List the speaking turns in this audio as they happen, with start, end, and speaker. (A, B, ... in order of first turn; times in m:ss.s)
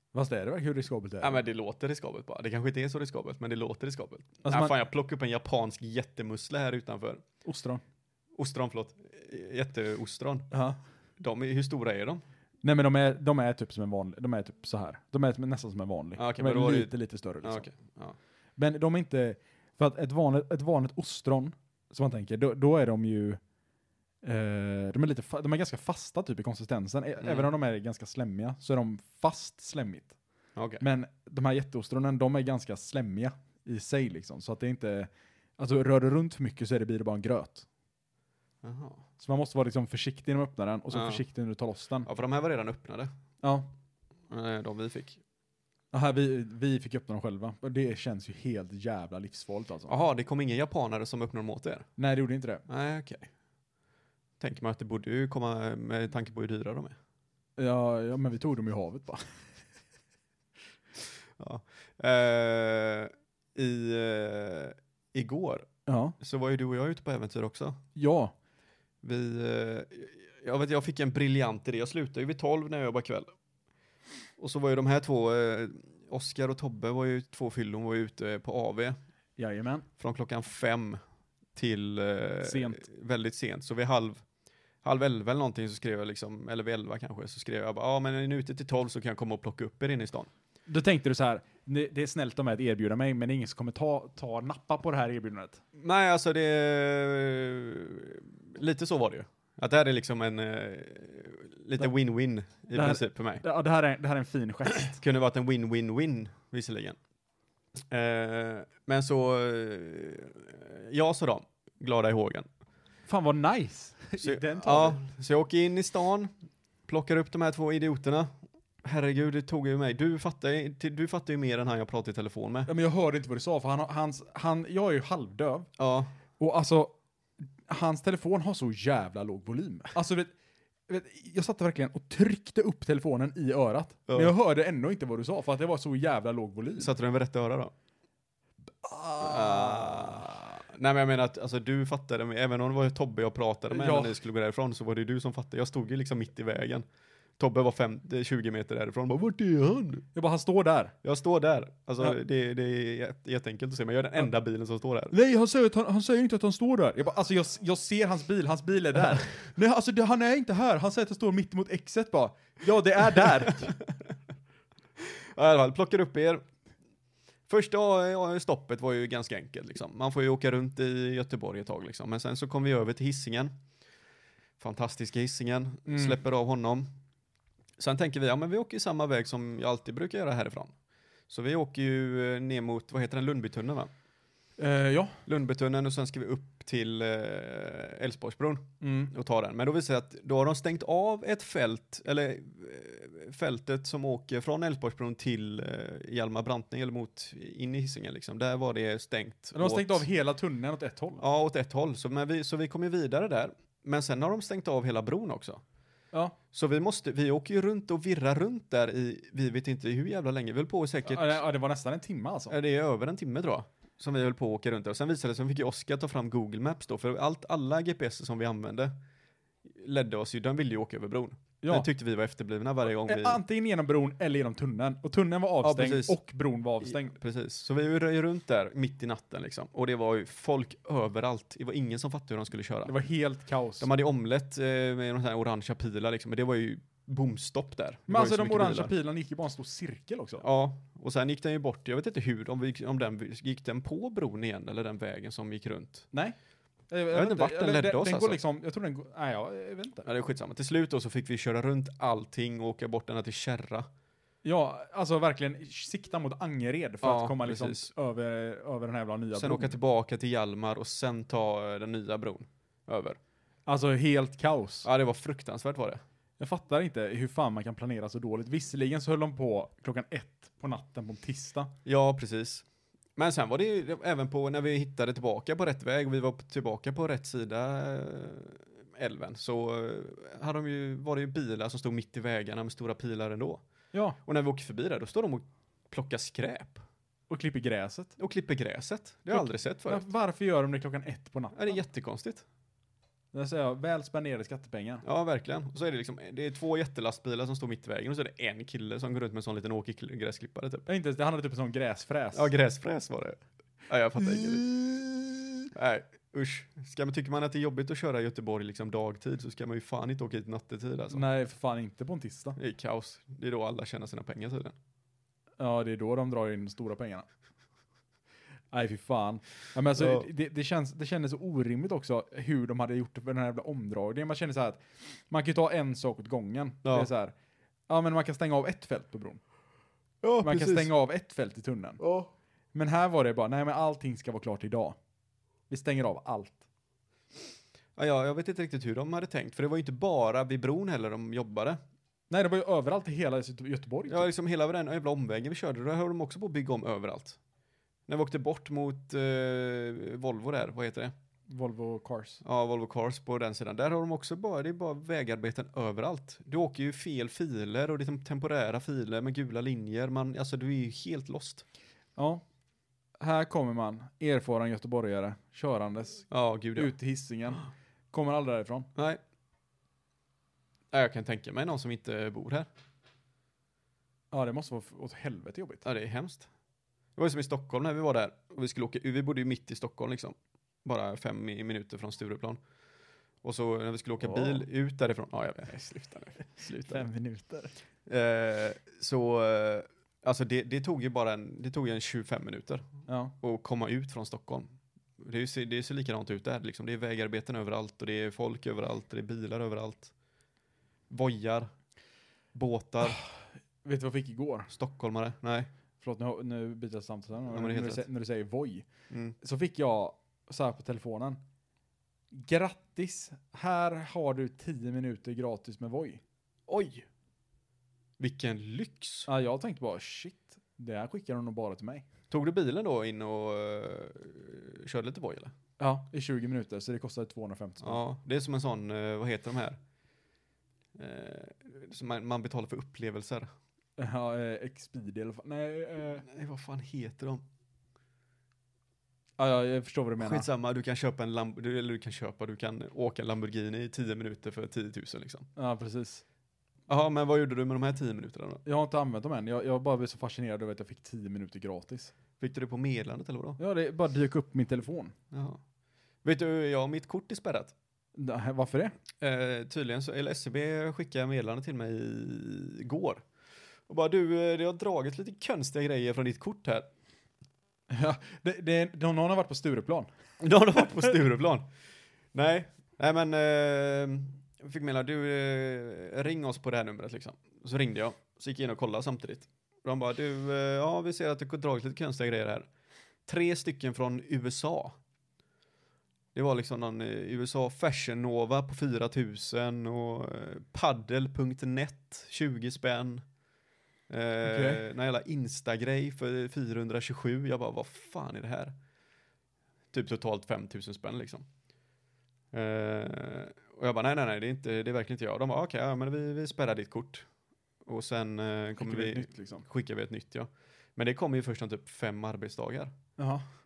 0:00.1-0:01.4 A
0:01.2-0:07.2 B
0:04.4-0:04.8 A
0:07.4-0:07.8 A
0:08.4-0:10.5 B
0:10.5-0:10.8 A
0:11.2-0:12.2 B
0:12.6-0:17.7 A
0:16.2-0:18.2 B
0:18.6-0:23.4 A
0:24.2-0:30.2 A
0:27.2-0:27.5 B
0:30.6-0:30.8 B
0:30.8-0:37.7 A
0:38.6-0:39.0 B
0:39.2-0:42.1 A
0:40.9-0:41.2 B
0:42.0-0:43.1 B
0:43.4-0:43.7 A
0:44.3-0:45.2 B
0:45.9-0:49.9 A
0:49.9-0:51.9 B
0:52.0-0:52.6 A
0:52.7-0:53.3 B
0:54.4-0:57.0 B
0:57.6-0:59.2 A
1:01.4-1:05.7 B
1:05.9-1:06.2 A
1:06.2-1:07.8 B
1:08.0-1:08.3 A
1:09.0-1:13.3 B
1:14.4-1:19.0 B
1:19.4-1:19.9 A
1:20.0-1:21.0 B
1:21.6-1:24.2 B
1:22.4-1:22.8 A
1:24.8-1:30.3 B
1:30.7-1:35.6 A
1:35.8-1:43.4 B
1:42.7-1:45.0 A
1:44.9-1:47.0 B
1:47.9-1:52.5 B
1:53.1-1:55.0 A
1:54.2-1:56.3 B
1:56.9-1:58.3 B
1:58.8-2:02.7 B
2:02.7-2:05.7 A
2:05.8-2:06.1 B
2:06.4-2:07.0 A
2:07.6-2:10.3 A
2:10.9-2:16.9 A
2:14.1-2:14.3 B
2:16.8-2:17.7 B
2:18.8-2:20.6 A
2:19.2-2:26.9 B
2:23.7-2:24.2 A
2:27.4-2:30.1 B
2:30.1-2:31.0 A
2:31.0-2:35.2 B
2:35.1-2:43.8 A
2:45.0-2:46.4 B
2:47.5-2:53.5 B
2:54.6-2:56.9 B
2:55.9-2:56.2 A
2:57.8-3:00.7 B
3:01.3-3:03.9 B
3:04.6-3:05.2 A
3:05.3-3:20.0 B
3:08.8-3:09.1 A
3:19.6-3:21.2 A
3:21.2-3:25.6 B
3:26.5-3:31.4 B
3:31.1-3:32.6 A
3:32.5-3:38.9 B
3:39.6-3:43.4 B
3:41.6-3:41.9 A
3:43.0-3:47.2 A
3:45.6-3:46.2 B
3:46.8-3:52.9 B
3:52.8-3:53.9 A
3:53.8-3:58.9 B
3:58.1-4:00.4 A
4:00.4-4:06.1 B
4:06.9-4:10.1 A
4:07.1-4:08.4 B
4:10.0-4:13.9 B
4:14.4-4:19.8 A
4:17.0-4:17.9 B
4:19.3-4:23.2 B
4:23.7-4:24.9 A
4:24.8-4:26.0 B
4:26.4-4:31.7 A
4:31.8-4:32.6 B
4:33.2-4:43.6 B
4:44.2-4:46.8 B
4:47.3-4:48.1 A
4:48.2-4:50.0 B
4:49.3-4:51.8 A
4:51.5-4:52.4 B
4:53.3-4:55.0 A
4:55.0-5:00.9 B
5:00.9-5:02.5 A
5:02.3-5:04.6 B
5:04.2-5:05.6 A
5:05.7-5:11.2 B
5:11.1-5:12.6 A
5:12.6-5:14.8 B
5:15.6-5:17.3 A
5:18.7-5:27.4 A
5:20.0-5:20.3 B
5:26.8-5:27.1 B
5:27.9-5:29.4 A
5:30.2-5:30.9 B
5:30.4-5:32.0 A
5:32.0-5:32.3 B
5:32.7-5:35.0 A
5:35.7-5:36.6 A
5:38.0-5:41.8 B
5:42.3-5:44.3 A
5:44.1-5:47.4 B
5:48.1-5:51.1 B
5:51.5-5:52.4 A
5:52.4-6:01.6 B
6:02.2-6:02.4 A
6:03.2-6:08.9 A
6:06.3-6:06.9 B
6:10.9-6:12.7 B
6:14.3-6:15.8 A
6:15.8-6:16.5 B
6:17.2-6:22.6 B
6:23.4-6:27.0 B
6:24.2-6:24.6 A
6:26.8-6:27.7 A
6:28.1-6:32.9 B
6:33.1-6:33.3 A
6:33.4-6:40.1 B
6:41.1-6:41.7 B
6:42.5-6:43.2 B
6:43.0-6:43.3 A
6:43.8-6:44.7 A
6:44.7-6:45.7 B
6:46.0-6:48.9 A
6:47.5-6:48.0 B
6:49.1-6:49.4 B
6:49.4-6:51.4 A
6:52.3-6:56.2 A
6:56.7-6:57.1 B
6:58.2-6:59.3 B
6:59.3-7:02.1 A
7:02.3-7:05.5 B
7:05.8-7:08.0 A
7:07.8-7:09.8 B
7:11.0-7:13.5 B
7:14.0-7:16.2 A
7:16.2-7:17.4 B
7:19.4-7:20.5 A
7:20.2-7:25.5 B
7:25.6-7:26.2 A
7:26.9-7:28.6 B
7:28.6-7:32.1 A
7:32.4-7:33.6 B
7:33.6-7:35.2 A
7:35.3-7:35.6 B
7:36.2-7:37.7 B
7:38.2-7:39.0 A
7:39.2-7:43.3 B
7:43.9-7:46.9 B
7:47.9-7:50.1 A
7:50.4-7:51.7 B
7:52.3-8:02.7 B
8:03.3-8:05.0 B
8:06.3-8:13.2 B
8:14.1-8:18.7 B
8:14.4-8:14.8 A
8:19.9-8:21.5 B
8:22.5-8:27.3 B
8:27.8-8:32.9 B
8:28.8-8:29.6 A
8:33.2-8:33.4 A